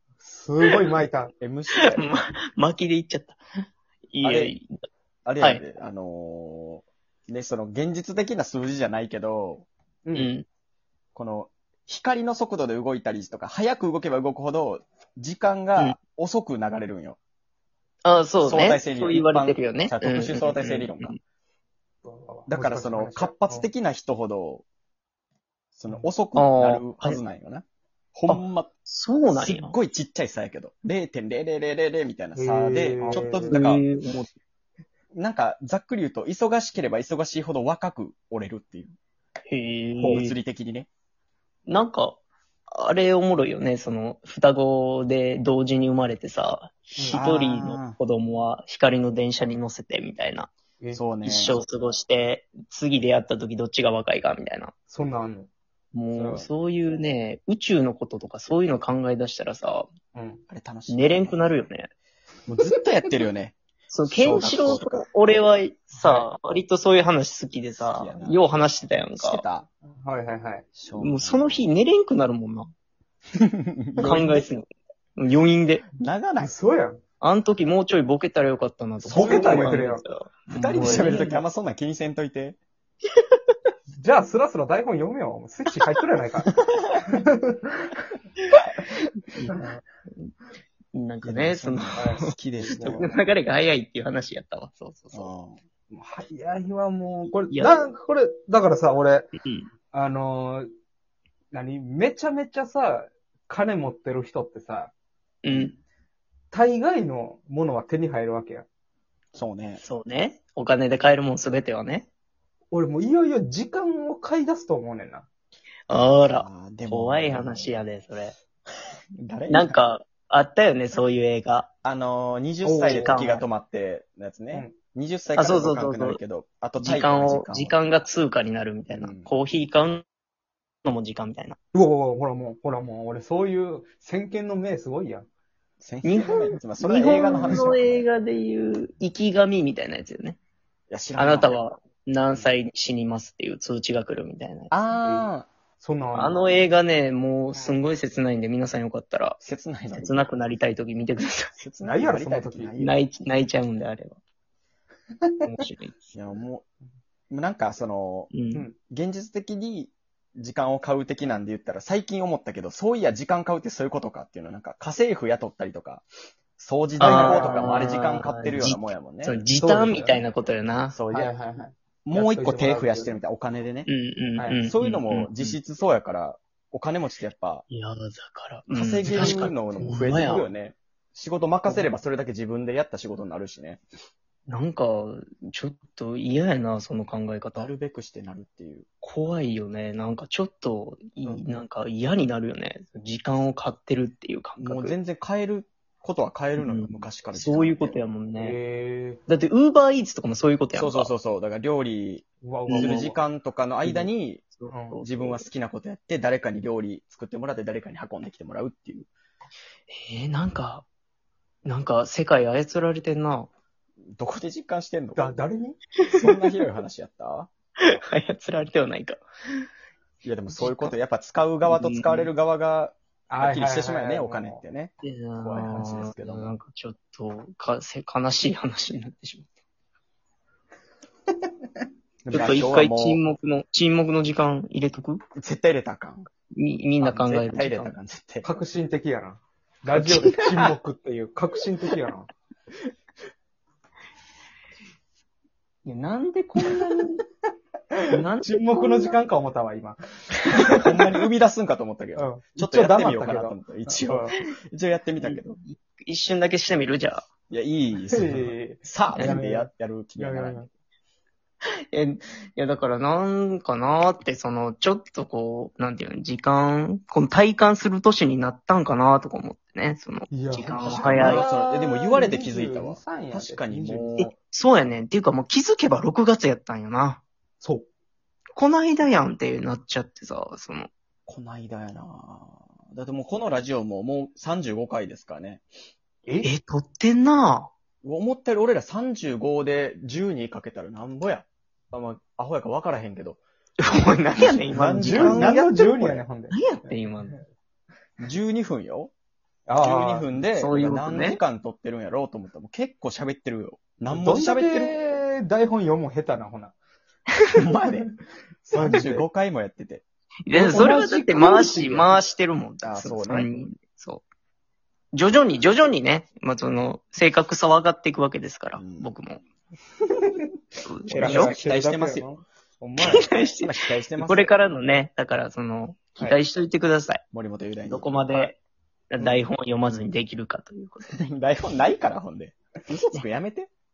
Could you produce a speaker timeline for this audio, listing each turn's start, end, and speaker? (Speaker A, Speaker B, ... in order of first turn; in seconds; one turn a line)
Speaker A: 0.2-1.3
Speaker B: 1.4-2.1
Speaker C: 1.8-3.4
Speaker C: 4.1-4.7
Speaker B: 4.2-4.5
Speaker B: 5.3-9.7
Speaker A: 10.1-10.3
Speaker C: 10.1-10.5
Speaker B: 11.2-17.2
Speaker C: 18.0-21.1
Speaker B: 18.4-21.2
Speaker A: 22.0-23.7
Speaker B: 22.5-24.6
Speaker B: 25.7-28.7
Speaker C: 26.4-27.2
Speaker C: 28.3-29.8
Speaker B: 29.3-33.8
Speaker A: 32.4-33.6
Speaker C: 33.1-34.3
Speaker B: 35.1-39.0
Speaker C: 39.5-40.4
Speaker B: 40.0-40.9
Speaker C: 41.7-42.2
Speaker C: 42.7-50.5
Speaker A: 47.0-47.2
Speaker B: 47.1-48.0
Speaker B: 50.9-51.6
Speaker C: 51.2-54.7
Speaker A: 54.9-55.5
Speaker C: 55.9-59.9
Speaker A: 56.1-56.5
Speaker A: 60.1-60.4
Speaker B: 60.5-61.5
Speaker C: 60.9-61.9
Speaker B: 62.5-65.0
Speaker C: 63.9-69.4
Speaker A: 66.0-66.3
Speaker B: 67.8-69.7
Speaker A: 70.0-70.7
Speaker B: 70.8-71.7
Speaker C: 71.0-72.7
Speaker B: 73.4-74.5
Speaker A: 74.0-74.3
Speaker C: 74.0-74.7
Speaker C: 75.2-75.9
Speaker B: 76.0-76.6
Speaker A: 76.4-77.0
Speaker C: 77.2-81.4
Speaker B: 79.0-79.8
Speaker A: 79.1-80.0
Speaker B: 80.5-82.6
Speaker A: 80.8-81.4
Speaker A: 84.0-86.5
Speaker B: 86.5-87.0
Speaker A: 87.1-88.0
Speaker C: 89.3-89.6
Speaker C: 90.9-95.3
Speaker B: 91.2-93.1
Speaker A: 92.0-93.2
Speaker B: 95.1-95.6
Speaker A: 95.9-99.3
Speaker C: 97.5-97.8
Speaker C: 99.4-99.7
Speaker A: 99.9-100.7
Speaker A: 101.5-104.9
Speaker C: 105.4-105.7
Speaker A: 106.5-108.7
Speaker B: 109.3-109.8
Speaker C: 109.8-112.1
Speaker A: 112.7-115.3
Speaker C: 115.9-118.3
Speaker B: 116.4-117.8
Speaker B: 119.2-119.8
Speaker C: 119.5-121.7
Speaker B: 121.8-127.8
Speaker A: 122.6-123.2
Speaker C: 122.9-123.5
Speaker C: 125.4-126.2
Speaker C: 126.8-130.1
Speaker B: 128.9-129.3
Speaker C: 130.8-131.6
Speaker A: 131.7-135.3
Speaker B: 135.8-138.0
Speaker C: 136.0-140.4
Speaker B: 140.9-141.6
Speaker C: 141.2-144.7
Speaker B: 144.7-145.5
Speaker A: 145.0-145.3
Speaker A: 145.8-146.5
Speaker C: 146.1-149.4
Speaker B: 149.4-150.3
Speaker C: 149.9-151.5
Speaker B: 151.6-153.0
Speaker A: 151.8-152.8
Speaker C: 152.8-154.2
Speaker A: 155.2-155.5
Speaker C: 155.4-156.0
Speaker B: 156.1-156.7
Speaker B: 157.3-158.3
Speaker C: 158.3-158.7
Speaker A: 158.5-158.8
Speaker B: 158.9-166.1
Speaker B: 166.6-169.4
Speaker C: 167.0-170.9
Speaker A: 167.0-167.8
Speaker A: 169.6-170.2
Speaker B: 170.9-171.3
Speaker A: 171.1-173.2
Speaker B: 172.1-173.9
Speaker C: 173.9-175.6
Speaker A: 174.4-174.6
Speaker B: 174.7-177.7
Speaker C: 177.7-180.5
Speaker B: 178.7-183.8
Speaker A: 179.1-179.6
Speaker A: 181.7-181.9
Speaker C: 184.5-187.7
Speaker B: 187.5-188.9
Speaker C: 189.0-194.9
Speaker B: 194.6-198.0
Speaker C: 196.6-198.6
Speaker A: 198.4-199.2
Speaker C: 199.3-201.1
Speaker B: 200.8-209.1
Speaker A: 202.4-203.2
Speaker C: 202.7-203.0
Speaker C: 203.8-205.5
Speaker A: 204.7-205.0
Speaker C: 209.9-210.8
Speaker C: 211.7-213.5
Speaker B: 214.2-215.4
Speaker A: 215.2-215.8
Speaker B: 216.1-217.5
Speaker C: 217.8-219.2
Speaker B: 220.2-226.6
Speaker C: 220.6-220.9
Speaker C: 221.7-222.3
Speaker A: 223.3-224.6
Speaker C: 225.0-229.5
Speaker B: 232.2-233.2
Speaker C: 232.3-235.2
Speaker B: 235.4-236.3
Speaker C: 236.6-237.9
Speaker B: 237.0-238.5
Speaker A: 238.4-242.3
Speaker B: 240.2-240.7
Speaker C: 245.8-247.2
Speaker A: 247.9-251.0
Speaker C: 248.1-249.1
Speaker B: 250.8-255.6
Speaker A: 252.2-254.3
Speaker C: 255.2-257.3
Speaker B: 257.5-260.7
Speaker A: 258.1-260.7
Speaker C: 261.9-271.5
Speaker A: 270.3-274.2
Speaker B: 270.8-274.3
Speaker C: 274.2-277.2
Speaker C: 278.6-280.9
Speaker B: 281.3-285.6
Speaker C: 286.4-287.7
Speaker B: 288.0-293.4
Speaker C: 293.8-295.5
Speaker B: 294.4-296.2
Speaker A: 295.0-297.4
Speaker C: 296.5-297.4
Speaker B: 298.2-299.1
Speaker A: 299.7-300.3
Speaker B: 299.8-305.0
Speaker C: 300.6-301.4
Speaker A: 304.1-306.7
Speaker B: 307.6-310.0
Speaker A: 308.7-309.2
Speaker C: 310.5-314.2
Speaker A: 310.5-312.2
Speaker B: 312.8-313.7
Speaker C: 315.1-319.4
Speaker B: 318.8-319.1
Speaker C: 320.9-321.5
Speaker B: 321.1-322.3
Speaker A: 321.1-323.3
Speaker C: 323.0-327.2
Speaker B: 323.3-324.5
Speaker B: 327.3-328.2
Speaker C: 327.9-328.6
Speaker C: 329.1-331.1
Speaker A: 329.2-329.4
Speaker B: 331.1-333.7